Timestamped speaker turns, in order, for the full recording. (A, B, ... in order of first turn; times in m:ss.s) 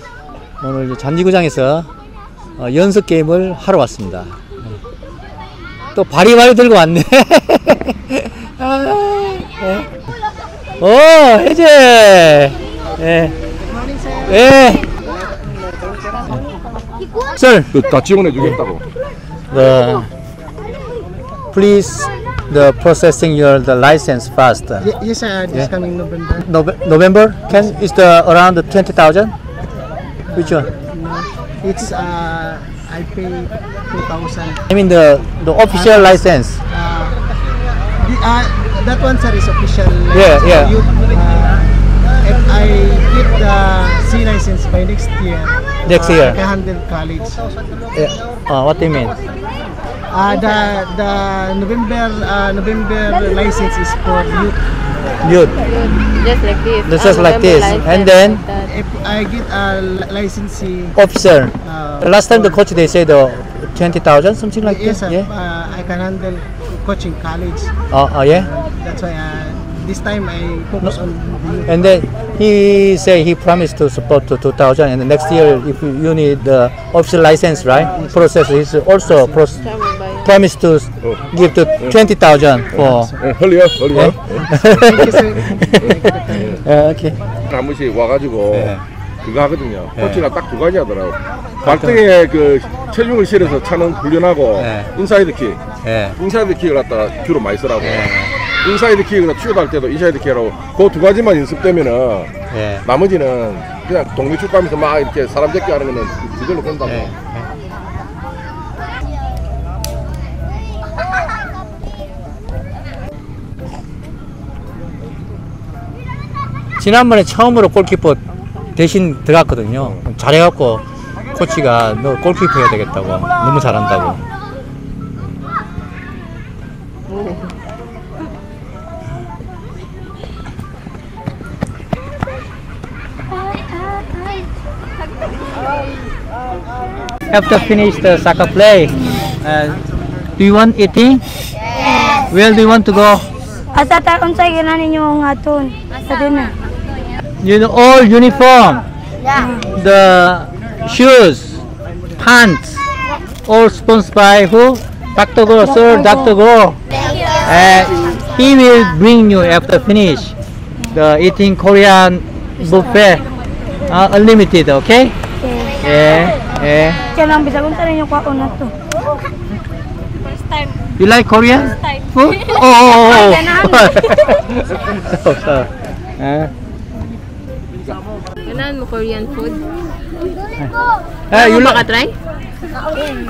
0:00.6-0:01.9 A
0:02.6-0:04.4 A
0:05.9-0:09.9 A
0:10.8-0:13.3 A
0:13.7-0:14.3 B
0:14.2-0:14.8 A
0:17.3-0:17.8 A
0:17.7-0:18.8 C
0:19.5-0:20.1 A
0:21.5-0:24.9 A
0:24.9-0:26.4 B
0:26.4-0:29.3 A
0:30.3-0:30.7 A
0:30.5-0:34.6 B
0:34.7-0:36.6 A
0:36.7-0:37.2 B
0:38.0-0:41.7 B
0:40.1-0:40.8 A
0:42.2-0:45.6 B
0:45.8-0:46.4 A
0:46.1-0:47.4 B
0:47.9-0:49.2 A
0:50.1-0:54.5 B
0:55.2-0:55.6 A
0:55.7-0:58.7 D
0:56.9-0:58.4 A
0:58.7-1:00.9 B
1:00.9-1:05.3 A
1:01.6-1:02.1 B
1:04.7-1:07.7 B
1:07.9-1:08.5 A
1:08.4-1:11.6 B
1:11.6-1:19.7 A
1:19.7-1:20.2 D
1:20.2-1:23.2 A
1:23.2-1:24.4 C
1:23.9-1:27.2 A
1:24.3-1:26.6 B
1:27.5-1:35.6 C
1:28.5-1:28.8 A
1:30.0-1:30.3 A
1:31.6-1:32.0 A
1:34.6-1:34.9 A
1:35.8-1:36.2 A
1:36.2-1:38.1 C
1:37.8-1:38.4 A
1:38.6-1:42.3 C
1:42.5-1:42.9 A
1:42.8-1:47.1 C
1:46.8-1:47.5 A
1:56.8-1:58.2 A
1:58.8-2:04.2 A
2:17.3-2:19.8 A
2:20.4-2:21.2 A
2:21.8-2:22.2 E
2:22.1-2:23.2 A
2:23.7-2:26.6 E
2:27.4-2:28.8 A
2:29.4-2:31.6 A
2:32.2-2:32.8 A
2:33.4-2:36.8 A
2:37.4-2:40.3 A
2:40.9-2:43.3 A
2:43.9-2:45.2 A
2:45.4-2:45.7 E
2:45.7-2:47.1 A
2:47.1-2:48.7 E
2:51.0-2:56.5 A
2:53.1-2:53.9 E
2:58.4-2:59.6 D
3:01.3-3:01.8 A
3:01.3-3:02.1 D